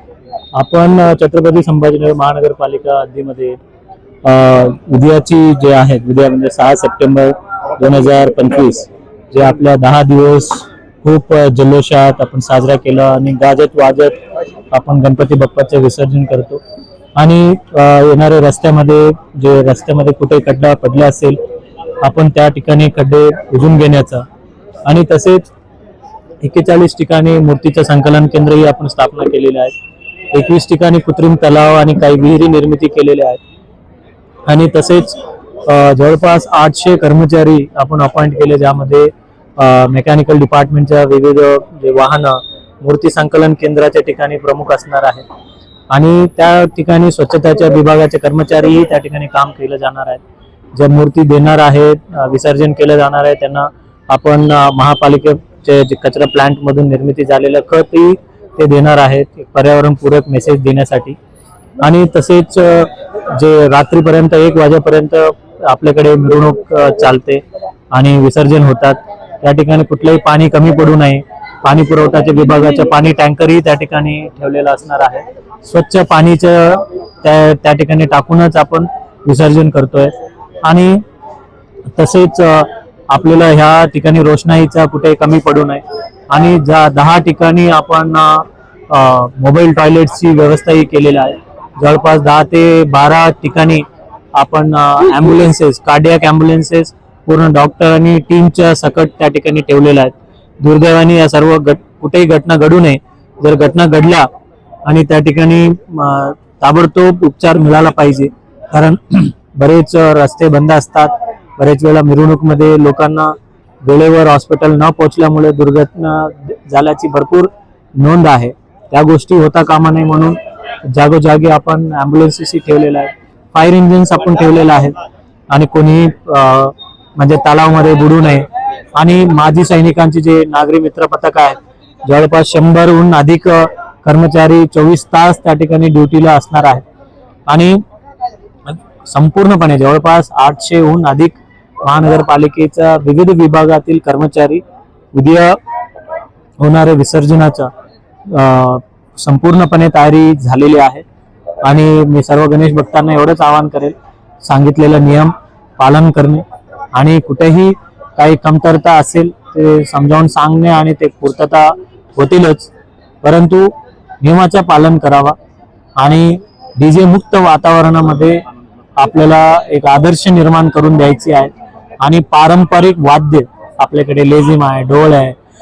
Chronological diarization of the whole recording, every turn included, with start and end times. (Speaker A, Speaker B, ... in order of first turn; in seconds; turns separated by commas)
Speaker A: 0.6-3.6, Speaker A: 4.2-14.2, Speaker A: 14.7-16.6, Speaker A: 17.2-21.4, Speaker A: 22.0-24.2, Speaker A: 24.9-25.5, Speaker A: 26.4-29.7, Speaker A: 30.3-33.4, Speaker A: 34.5-45.2, Speaker A: 45.9-50.2, Speaker A: 50.8-61.2, Speaker A: 61.8-80.1, Speaker A: 80.6-81.0, Speaker A: 82.0-104.3, Speaker A: 104.9-125.0, Speaker A: 125.5-136.8, Speaker A: 137.5-137.8, Speaker A: 138.7-145.6, Speaker A: 146.6-147.7, Speaker A: 148.3-151.1, Speaker A: 151.6-162.7, Speaker A: 163.2-165.4, Speaker A: 166.0-168.4, Speaker A: 169.0-175.4